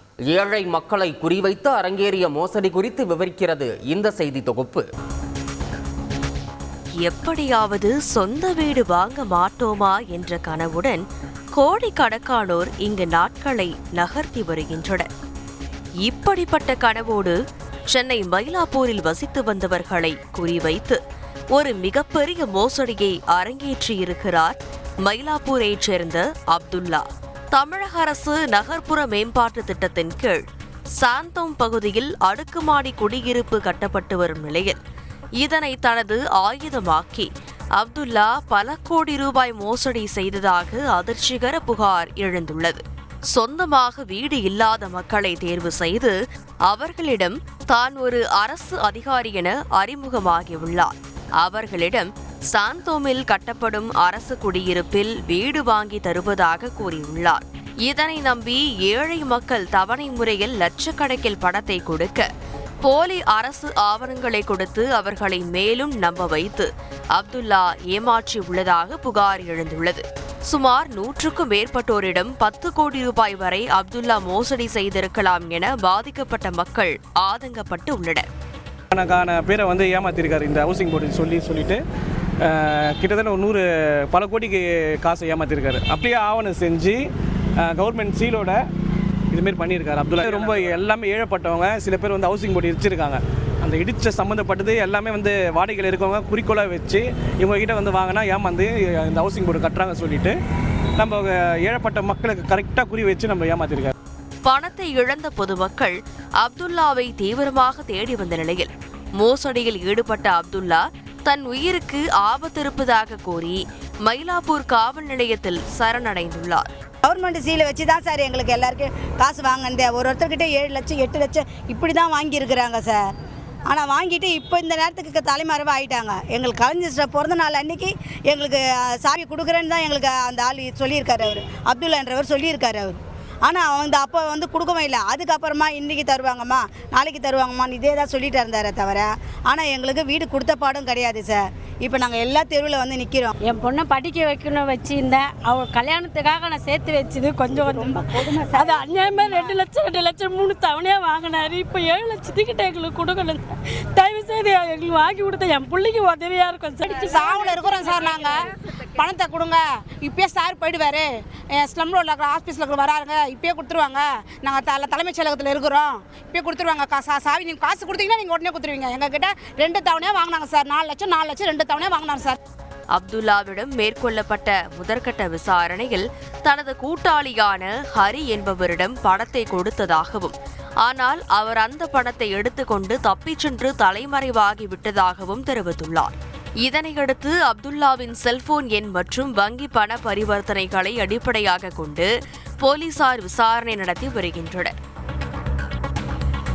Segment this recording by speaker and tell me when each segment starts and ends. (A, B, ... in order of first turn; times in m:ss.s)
0:00.3-0:04.9 A
0:07.0-0:11.0 B
0:11.6-0:15.1 B
0:16.0-0:17.4 B
0:17.9-0:21.0 B
0:21.5-0:30.4 B
0:31.0-0:34.8 B
0:35.4-0:42.8 B
0:43.3-0:46.1 B
0:46.7-1:02.3 B
1:02.8-1:18.2 B
1:18.9-1:21.8 C
1:22.4-1:27.0 C
1:27.6-1:28.6 C
1:29.3-1:40.4 C
1:41.0-1:43.9 C
1:44.4-1:56.7 B
1:57.0-2:03.0 D
2:03.7-2:23.3 D
2:23.5-2:37.6 E
2:37.1-2:38.4 F
2:39.0-2:52.4 F
2:52.9-3:12.1 B
3:12.6-3:14.7 B